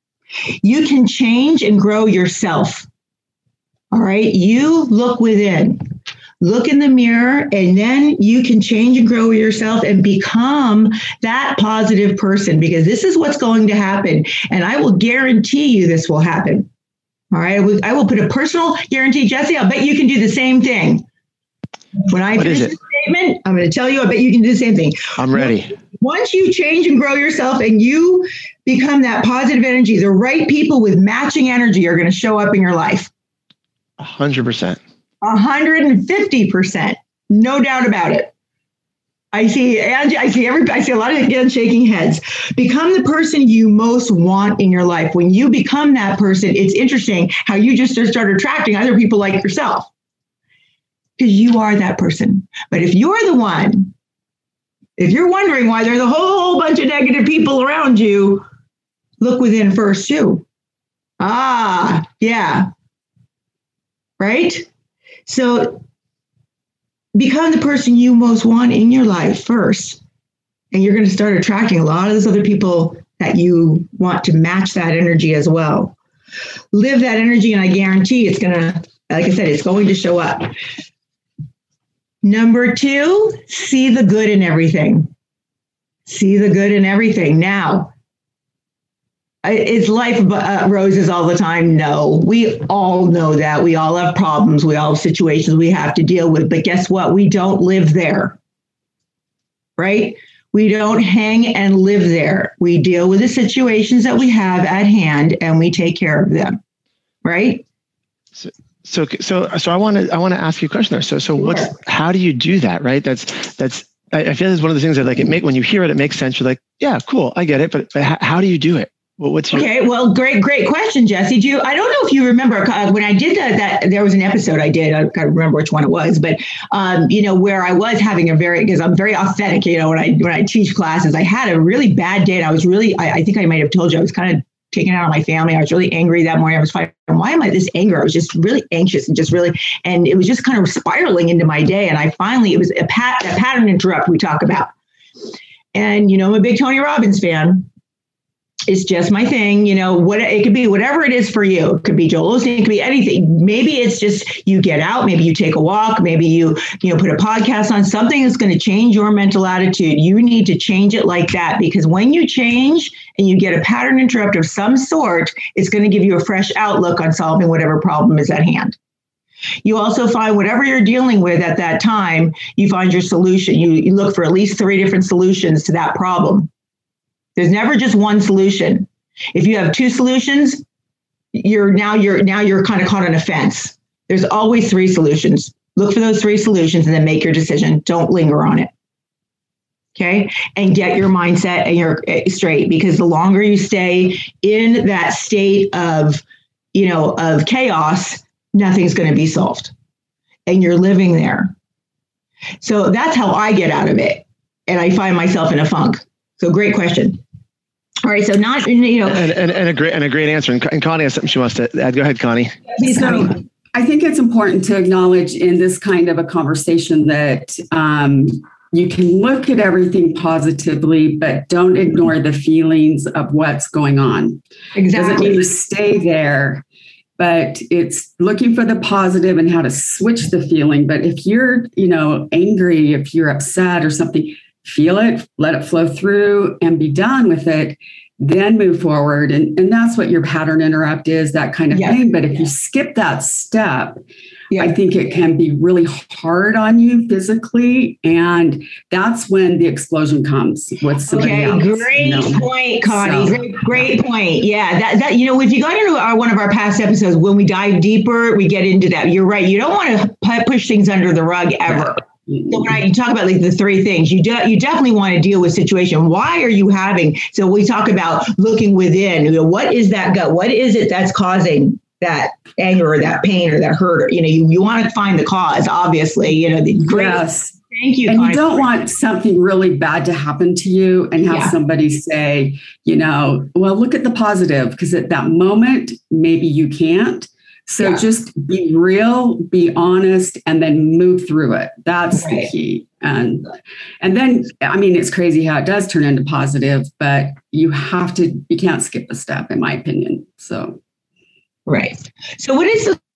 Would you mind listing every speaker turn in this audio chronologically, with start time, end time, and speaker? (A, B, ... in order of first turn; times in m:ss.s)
0:00.6-0:02.9 A
0:03.9-0:05.8 A
0:06.4-0:16.7 A
0:17.3-0:21.0 A
0:22.1-0:33.1 A
0:22.4-0:22.7 B
0:25.2-0:25.7 B
0:34.0-0:34.8 B
0:35.2-0:38.3 A
0:39.3-0:49.9 A
0:51.2-0:53.9 A
0:55.0-0:58.4 A
0:59.2-1:00.4 A
1:01.2-1:02.7 A
1:04.2-1:04.7 A
1:05.3-1:05.8 A
1:07.2-1:10.0 A
1:10.7-1:16.0 A
1:16.7-1:20.5 A
1:22.2-1:25.1 A
1:26.1-1:27.9 A
1:29.4-1:38.4 A
1:39.8-1:46.6 A
1:47.2-1:47.6 A
1:48.4-1:59.7 B
1:51.4-1:51.7 A
1:59.5-2:24.7 A
2:25.7-2:27.7 A
2:28.7-2:48.8 A
2:49.6-2:56.5 A
2:57.4-3:00.6 A
3:01.3-3:08.7 A
3:10.0-3:16.2 A
3:16.7-3:19.7 A
3:20.5-3:21.5 A
3:22.6-3:27.2 A
3:28.0-3:29.3 A
3:29.1-3:32.6 B
3:32.8-3:33.4 A
3:32.8-3:44.4 C
3:44.8-3:45.4 A
3:44.9-3:46.6 C
3:47.2-4:04.0 C
4:01.7-4:02.0 A
4:04.5-4:04.8 A
4:04.6-4:13.9 C
4:11.1-4:38.7 A
4:36.9-4:37.6 C
4:38.1-5:00.8 C
4:41.3-4:41.5 A
4:52.1-4:52.5 A
5:01.7-5:03.0 A